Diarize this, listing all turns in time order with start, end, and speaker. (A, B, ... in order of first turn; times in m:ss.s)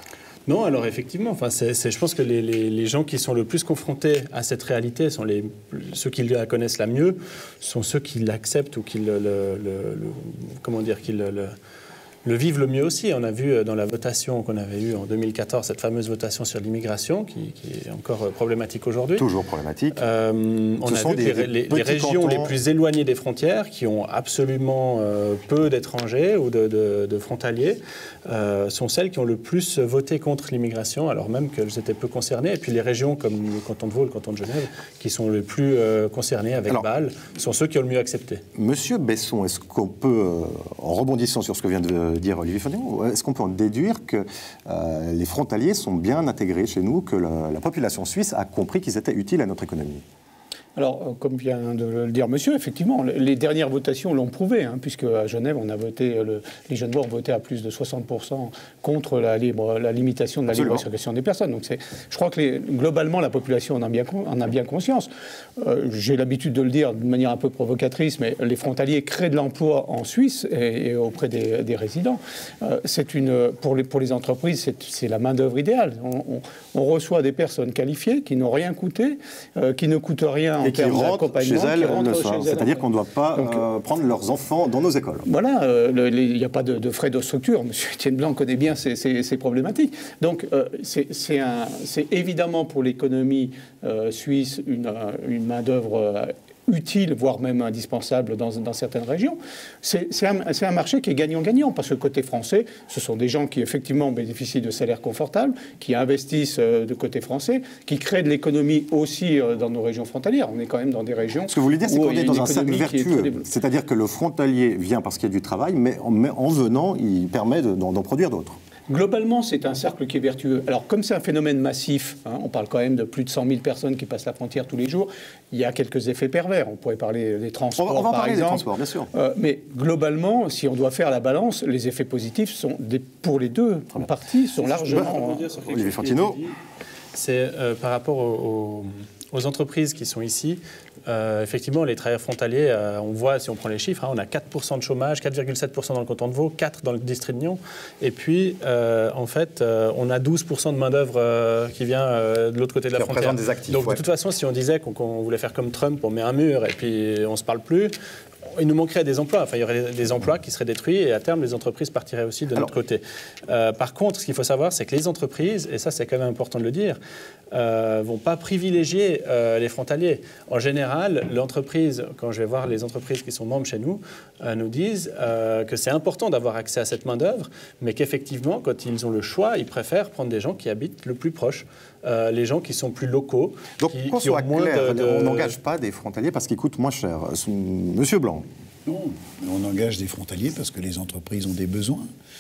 0:00.5-0:11.6 A
0:12.2-0:19.3 A
0:19.2-0:20.0 B
0:19.9-0:38.4 A
0:20.8-0:22.5 B
0:38.6-0:50.0 B
0:50.8-1:23.6 C
1:00.5-1:00.8 B
1:20.6-1:25.3 B
1:25.2-1:53.5 C
1:51.5-1:58.6 B
1:58.9-2:15.4 C
2:07.8-2:09.1 B
2:14.6-2:16.6 A
2:14.9-2:16.4 B
2:17.1-2:37.9 A
2:33.0-2:34.0 B
2:38.5-2:47.0 A
2:47.5-3:05.6 A
3:03.8-3:08.4 B
3:08.8-3:12.1 D